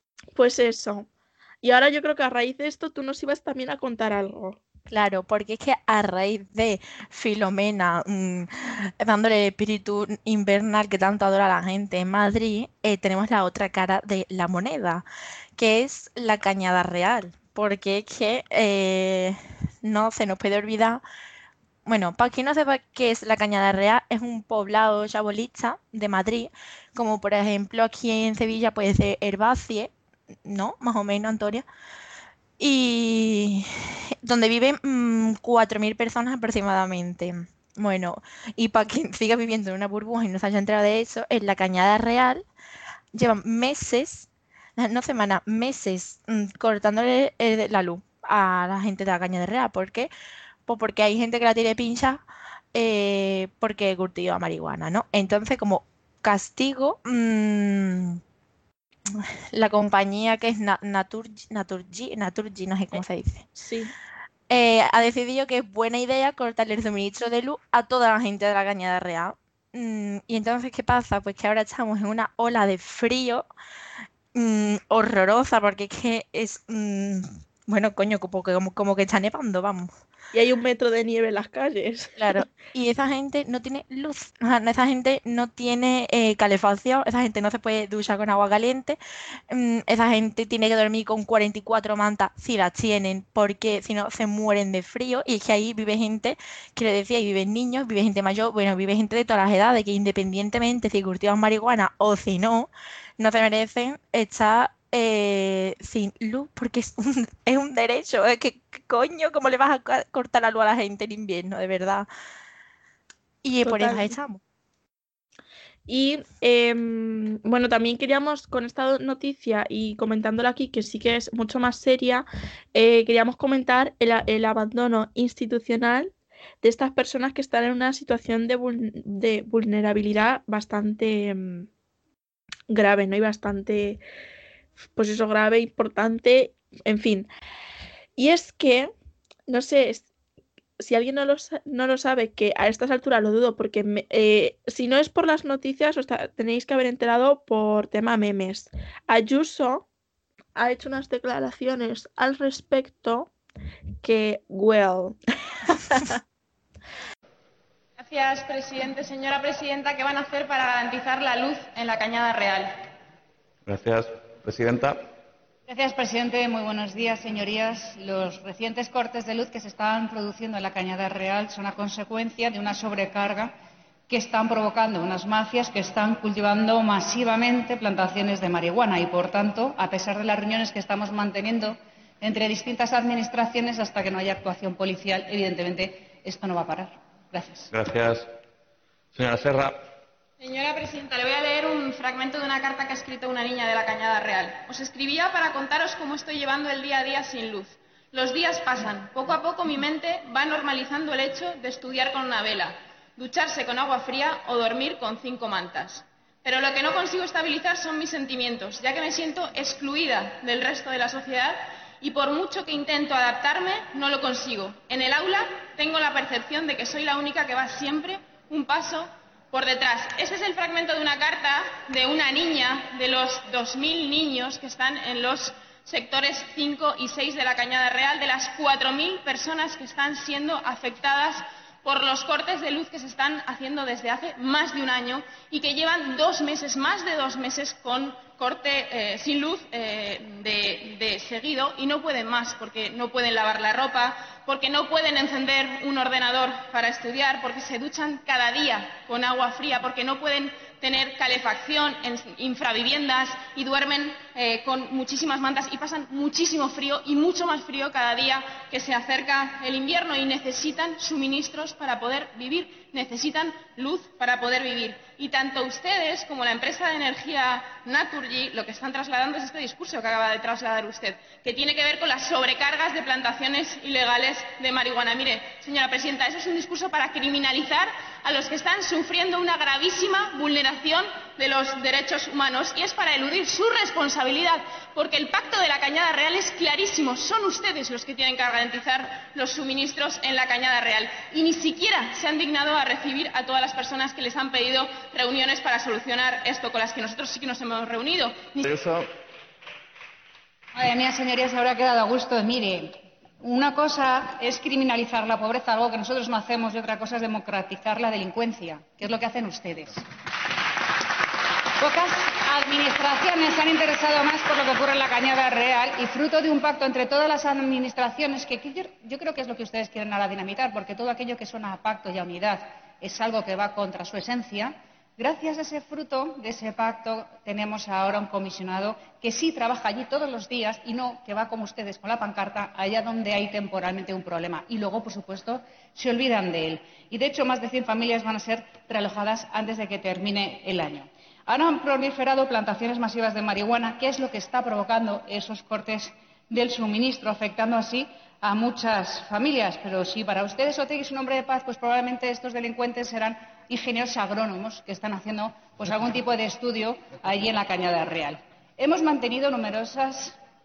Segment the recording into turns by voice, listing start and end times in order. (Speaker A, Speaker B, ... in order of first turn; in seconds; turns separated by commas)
Speaker A: 0.3-1.1, Speaker A: 1.6-4.6, Speaker B: 4.9-15.0, Speaker B: 15.6-21.0, Speaker B: 21.8-29.9, Speaker B: 30.4-31.6, Speaker B: 32.6-42.5, Speaker B: 43.1-50.1, Speaker B: 50.6-52.2, Speaker B: 52.7-58.2, Speaker B: 59.1-63.5, Speaker A: 63.5-63.9, Speaker B: 64.5-73.5, Speaker B: 74.3-79.9, Speaker A: 80.3-82.4, Speaker B: 82.2-89.0, Speaker B: 89.5-112.1, Speaker B: 113.4-114.4, Speaker A: 113.6-114.1, Speaker A: 115.9-131.7, Speaker A: 132.7-134.0, Speaker A: 135.0-137.3, Speaker A: 138.2-138.9, Speaker A: 139.5-140.1, Speaker A: 140.8-149.8, Speaker A: 150.6-153.3, Speaker A: 154.0-155.2, Speaker C: 158.0-162.9, Speaker D: 163.7-165.1, Speaker E: 165.7-173.6, Speaker E: 174.1-187.7, Speaker D: 187.7-188.3, Speaker D: 189.1-189.8, Speaker C: 190.4-298.6, Speaker D: 298.6-299.0, Speaker E: 300.7-310.0, Speaker E: 311.8-360.4